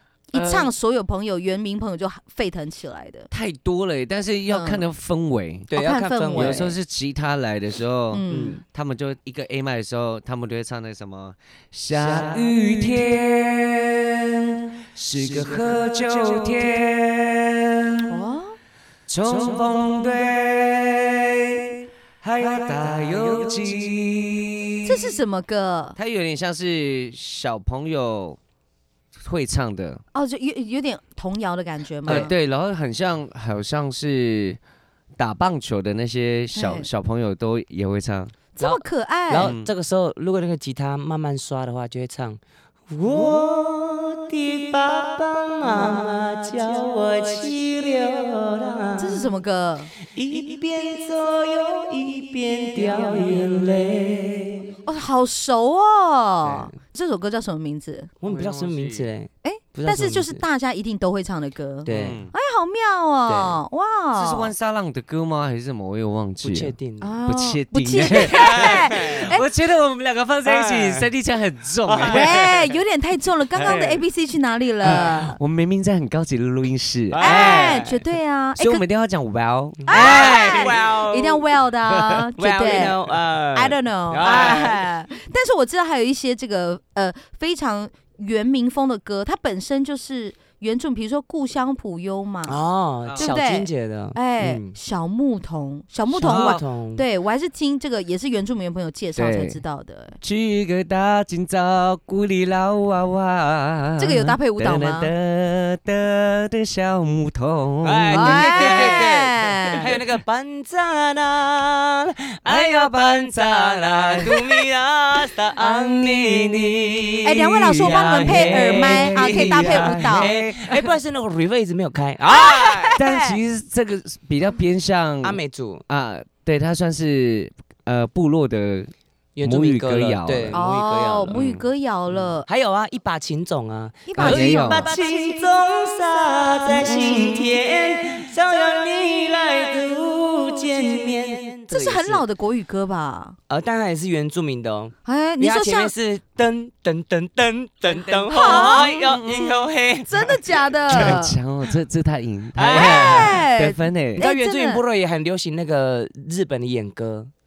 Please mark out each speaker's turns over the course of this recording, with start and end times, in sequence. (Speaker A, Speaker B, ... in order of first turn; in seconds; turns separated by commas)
Speaker A: 0.3-3.3, Speaker B: 0.3-0.7, Speaker B: 3.3-5.7, Speaker A: 4.5-4.8, Speaker C: 5.7-6.7, Speaker A: 5.7-6.7, Speaker B: 6.3-18.2, Speaker A: 8.1-8.6, Speaker C: 8.3-8.6, Speaker C: 11.9-12.5, Speaker A: 18.1-18.6, Speaker B: 19.1-25.1, Speaker A: 24.8-26.0, Speaker B: 25.9-28.4, Speaker B: 29.2-30.0, Speaker A: 30.1-32.3, Speaker C: 32.0-32.3, Speaker B: 32.1-34.6, Speaker B: 35.2-38.3, Speaker A: 36.5-36.9, Speaker A: 38.5-39.5, Speaker C: 38.6-49.3, Speaker B: 39.4-39.7, Speaker A: 45.6-46.1, Speaker A: 49.0-49.9, Speaker C: 50.0-54.7, Speaker A: 54.8-58.1, Speaker C: 56.4-56.7, Speaker C: 58.2-60.4, Speaker B: 58.2-59.1, Speaker A: 59.4-64.5, Speaker C: 61.8-62.2, Speaker B: 61.9-62.3, Speaker C: 63.3-63.6, Speaker B: 64.1-66.7, Speaker C: 66.4-67.2, Speaker A: 67.0-69.4, Speaker B: 67.2-72.4, Speaker C: 68.2-69.2, Speaker C: 70.4-71.1, Speaker C: 71.8-72.4, Speaker A: 72.0-75.4, Speaker C: 73.6-74.0, Speaker B: 74.8-77.8, Speaker C: 77.1-78.0, Speaker A: 77.2-78.8, Speaker B: 78.6-80.7, Speaker C: 79.8-81.5, Speaker A: 79.9-83.0, Speaker C: 82.4-84.9, Speaker A: 83.5-92.6, Speaker C: 92.5-94.7, Speaker B: 93.0-93.3, Speaker A: 93.2-100.2, Speaker C: 96.1-97.0, Speaker B: 96.2-96.6, Speaker B: 99.2-99.6, Speaker B: 100.2-109.1, Speaker A: 104.0-105.1, Speaker C: 107.8-123.0, Speaker A: 108.1-109.9, Speaker B: 112.5-114.3, Speaker B: 115.6-120.9, Speaker A: 117.2-120.3, Speaker A: 122.3-123.4, Speaker B: 123.0-128.9, Speaker C: 125.2-125.8, Speaker C: 129.3-131.4, Speaker B: 129.4-130.6, Speaker A: 130.5-132.5, Speaker B: 131.3-131.6, Speaker C: 132.1-142.2, Speaker A: 134.1-135.4, Speaker B: 134.2-134.9, Speaker A: 136.7-137.5, Speaker B: 136.9-137.3, Speaker A: 141.7-143.4, Speaker C: 143.5-150.4, Speaker A: 145.0-145.9, Speaker A: 148.3-149.0, Speaker B: 148.4-149.6, Speaker A: 150.1-151.4, Speaker B: 150.9-154.2, Speaker C: 152.6-153.4, Speaker A: 152.7-154.8, Speaker C: 154.2-157.3